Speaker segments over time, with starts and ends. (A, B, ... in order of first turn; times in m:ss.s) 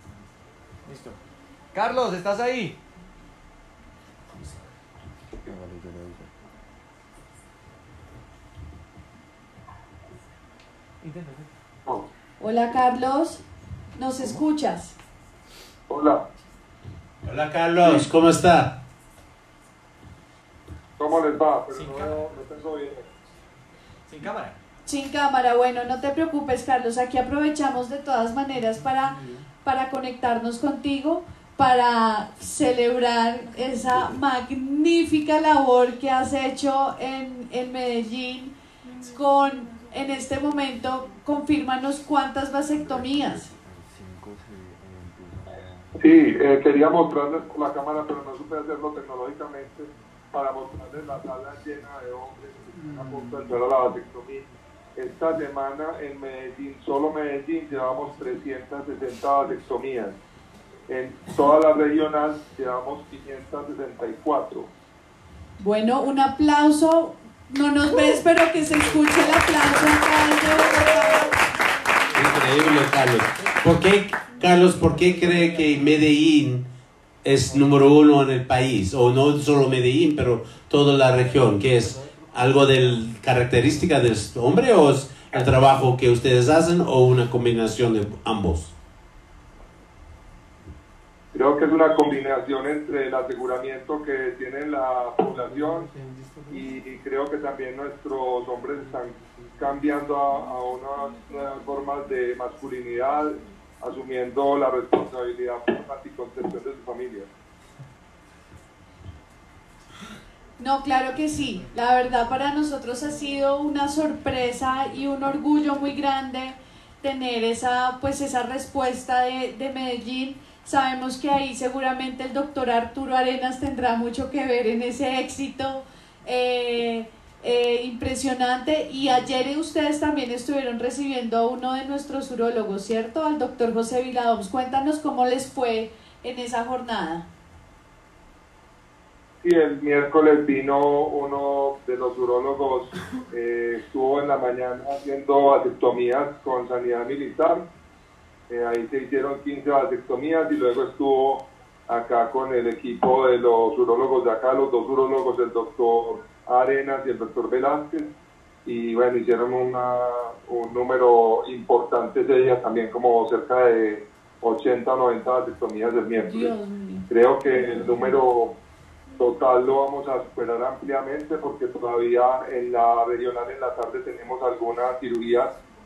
0:00.9-0:01.2 A
0:01.7-0:02.8 A
0:11.0-0:11.5 A
0:12.4-0:13.4 B
0:14.0-0:15.0 B
0:15.9-0:16.2 C
0:17.2-0:18.8 D
0:21.0-0:23.1 C
0:21.7-0:22.4 A
0:24.1-0:24.6 A
0:24.9-0:43.5 B
0:46.0-1:00.2 C
1:00.9-1:04.7 C
1:05.6-1:11.3 B
1:12.1-1:16.7 D
1:17.2-1:28.7 D
1:31.3-1:35.9 C
1:36.5-1:47.3 C
1:50.6-2:17.3 B
2:19.4-2:27.6 C
2:28.5-2:38.1 C
2:38.6-2:46.5 C
2:46.2-2:48.1 B
2:47.1-2:48.5 C
2:49.2-2:55.5 C